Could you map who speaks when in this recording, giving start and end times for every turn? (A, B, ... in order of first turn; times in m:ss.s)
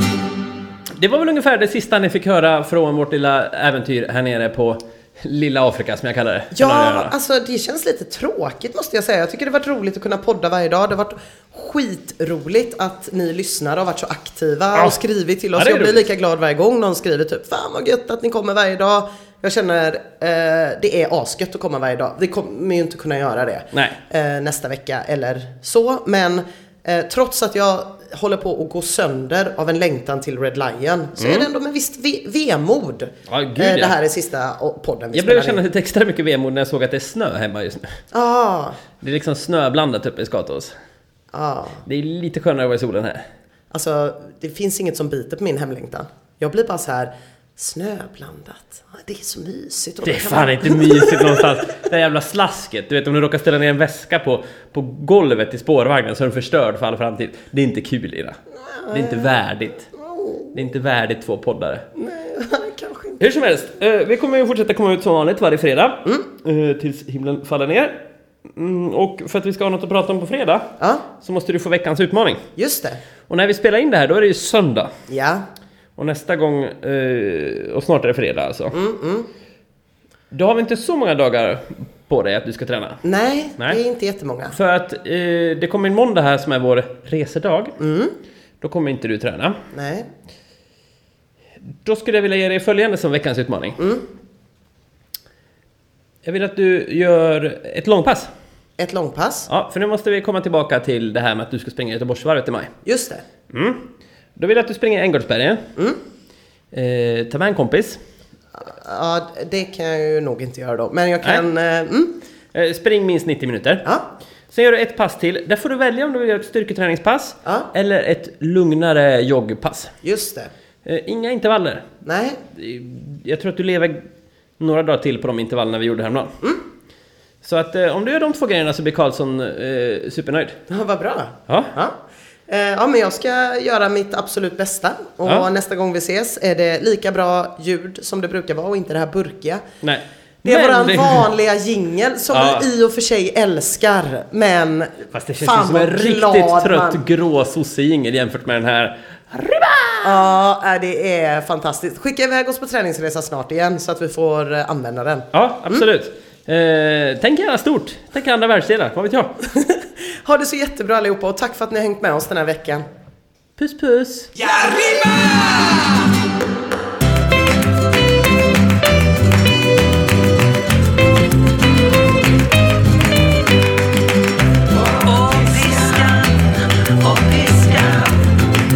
0:01.0-0:07.1 A
0:06.6-0:35.6 B
0:15.5-0:16.1 A
0:23.7-0:24.0 A
0:31.2-0:31.5 A
0:33.3-0:34.0 A
0:35.1-0:38.0 A
0:38.1-0:38.8 B
0:39.0-0:40.7 A
0:41.3-0:41.8 B
0:41.8-0:43.2 A
0:43.7-0:51.5 B
0:50.0-0:58.4 A
0:58.8-0:59.4 B
0:58.9-0:59.9 A
1:00.1-1:00.4 B
1:00.5-1:01.8 A
1:02.0-1:03.3 B
1:03.2-1:12.4 A
1:10.8-1:11.0 B
1:12.6-1:13.0 B
1:13.3-1:14.9 A
1:15.1-1:15.4 B
1:16.0-1:18.8 A
1:18.7-1:19.3 B
1:20.3-1:23.0 A
1:23.0-1:24.6 B
1:24.5-1:27.7 A
1:27.8-1:28.1 B
1:28.6-1:29.6 A
1:29.7-1:30.1 B
1:31.8-1:34.0 A
1:36.2-1:38.3 A
1:38.8-1:39.5 B
1:39.5-1:42.8 A
1:42.9-1:43.2 B
1:43.5-1:45.6 A
1:46.7-1:48.0 A
1:48.6-1:52.1 B
1:51.2-1:51.5 A
1:52.5-1:53.8 A
1:54.5-1:59.9 A
2:00.0-2:00.5 B
2:00.8-2:01.9 A
2:02.0-2:02.4 B
2:02.4-2:04.0 A
2:04.6-2:06.3 A
2:07.4-2:10.6 A
2:10.7-2:12.0 B
2:11.5-2:11.7 A
2:12.5-2:19.6 B
2:15.2-2:15.5 A
2:19.8-2:21.3 A
2:20.4-2:27.0 B
2:22.3-2:22.7 A
2:25.1-2:30.3 A
2:30.0-2:35.9 B
2:35.3-2:39.4 A
2:39.4-2:42.8 B
2:43.6-2:44.6 A
2:54.9-2:58.4 A